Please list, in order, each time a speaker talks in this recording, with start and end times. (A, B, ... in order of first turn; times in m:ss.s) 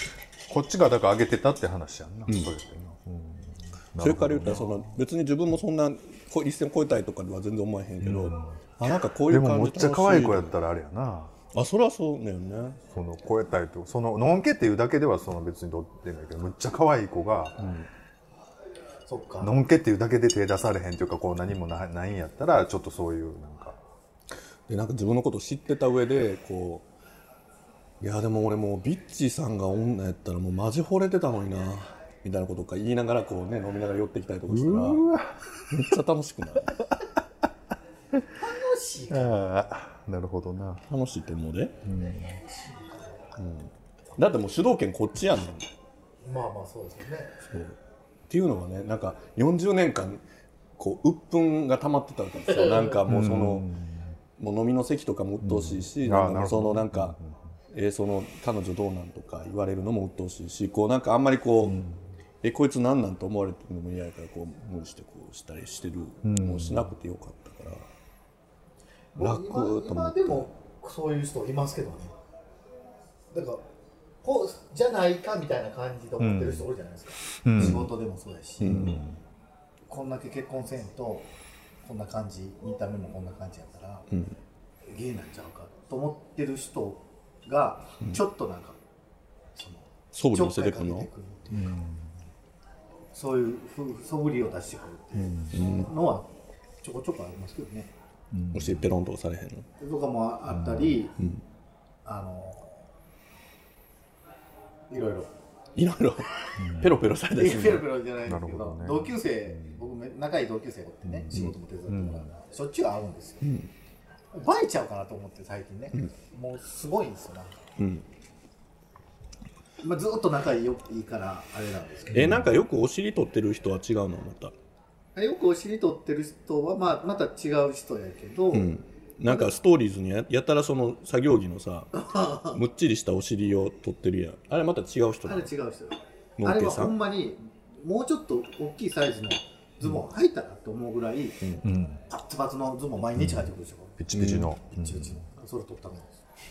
0:00.5-0:04.9 A
0:04.0-0:10.5 B
0:08.0-0:08.5 A
0:09.3-0:11.3 A
0:11.5-0:12.8 B
0:12.8-0:17.9 A
0:19.1-0:19.5 C
0:19.4-0:23.8 A
0:24.7-0:26.8 B
0:28.0-0:35.0 B
0:34.5-0:35.4 A
0:35.7-0:36.8 B
0:38.3-0:39.5 C
0:39.1-0:40.8 A
0:40.9-0:41.8 B
0:41.8-0:42.4 A
0:42.4-0:43.3 C
0:43.4-0:45.7 B
0:46.2-0:47.4 C
0:47.4-0:47.8 B
0:48.3-0:50.2 B
0:50.8-0:53.7 B
0:53.1-0:54.1 A
0:54.4-0:57.2 B
0:55.4-0:57.4 A
0:57.7-1:01.8 B
1:01.6-1:02.0 A
1:02.4-1:07.9 B
1:06.2-1:06.9 A
1:09.1-1:12.1 C
1:09.2-1:10.4 B
1:13.3-1:13.6 C
1:14.2-1:19.0 C
1:16.2-1:16.6 A
1:17.4-1:17.9 A
1:17.6-1:17.9 B
1:18.6-1:19.0 B
1:18.6-1:19.2 A
1:19.9-1:21.3 C
1:21.8-1:24.1 C
1:24.9-1:28.8 C
1:29.5-1:31.7 C
1:30.1-1:31.1 B
1:31.5-1:32.1 A
1:33.1-1:37.9 C
1:35.5-1:35.9 B
1:38.3-1:38.9 A
1:38.5-1:39.7 B
1:39.8-1:41.2 C
1:40.5-1:41.0 A
1:42.0-1:42.8 C
1:44.9-1:45.3 C
1:45.8-1:47.8 B
1:46.6-1:47.0 A
1:47.4-1:53.5 C
1:48.2-1:49.8 A
1:51.0-1:52.3 A
1:53.4-1:53.7 B
1:54.3-1:57.6 C
1:57.8-1:58.0 B
1:59.8-2:02.4 C
2:02.1-2:04.5 B
2:02.1-2:02.5 A
2:05.2-2:08.7 C
2:08.5-2:15.5 B
2:09.3-2:09.5 C
2:12.0-2:12.6 C
2:15.2-2:21.4 C
2:16.4-2:17.0 B
2:21.6-2:22.0 A
2:22.1-2:24.0 C
2:23.2-2:25.2 A
2:24.1-2:24.5 B
2:24.7-2:26.2 C